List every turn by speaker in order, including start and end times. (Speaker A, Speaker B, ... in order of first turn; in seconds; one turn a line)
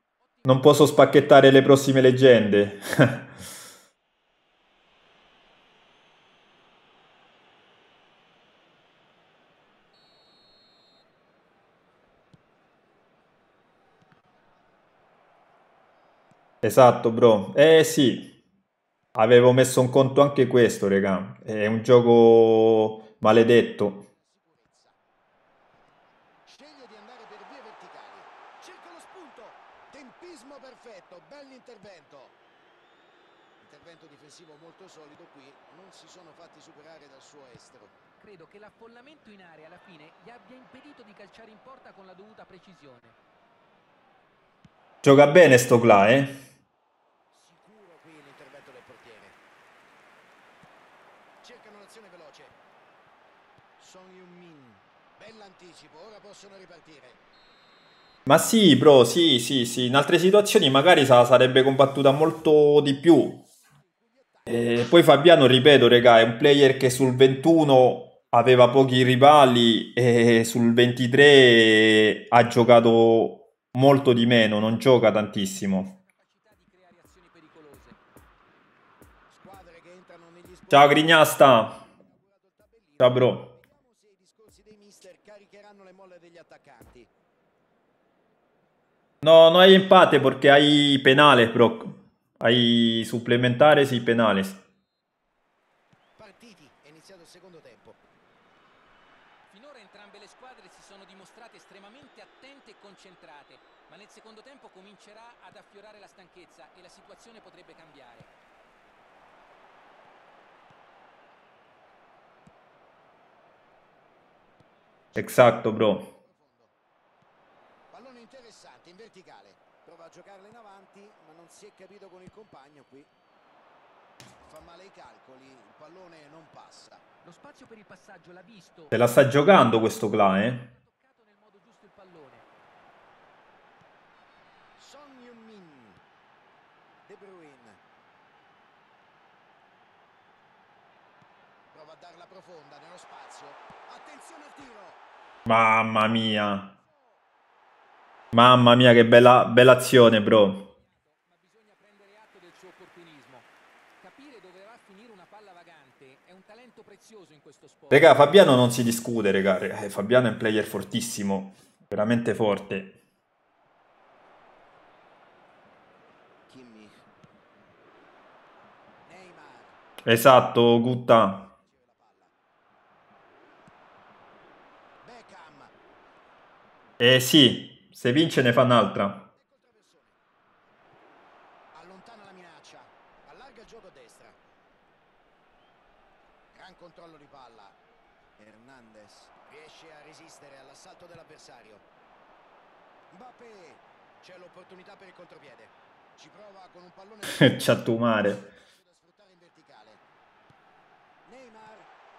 Speaker A: 0.4-0.7
Speaker B: 0.4-3.3
Speaker B: 16.6-18.4
Speaker B: 19.1-24.1
Speaker C: 24.0-25.0
Speaker C: 26.4-32.4
Speaker C: 33.6-37.9
Speaker A: 38.2-43.2
Speaker B: 45.0-46.4
Speaker C: 47.3-49.4
Speaker C: 51.4-52.5
Speaker C: 53.8-57.2
Speaker B: 58.2-63.4
Speaker C: 63.4-64.8
Speaker B: 64.5-75.9
Speaker A: 75.8-78.0
Speaker C: 79.3-87.1
Speaker B: 80.7-81.8
Speaker B: 83.0-83.5
Speaker B: 89.2-94.6
Speaker C: 96.2-98.0
Speaker A: 99.5-108.3
Speaker C: 115.1-116.7
Speaker B: 115.2-116.1
Speaker C: 117.9-123.1
Speaker C: 124.4-127.0
Speaker A: 127.2-132.4
Speaker B: 128.9-130.7
Speaker C: 134.8-136.0
Speaker C: 137.1-137.8
Speaker C: 141.7-145.0
Speaker B: 145.4-146.7
Speaker B: 148.3-150.7
Speaker A: 150.5-153.5
Speaker A: 154.0-158.3
Speaker B: 157.9-163.0
Speaker C: 166.5-167.0
Speaker C: 169.0-169.8
Speaker B: 170.0-171.5
Speaker C: 171.3-172.3
Speaker C: 175.0-175.7
Speaker B: 177.0-179.3
Speaker C: 179.3-180.2
Speaker C: 181.7-184.4
Speaker C: 186.5-187.8
Speaker C: 188.4-191.8
Speaker C: 193.1-200.0
Speaker B: 197.2-198.5
Speaker C: 201.2-201.9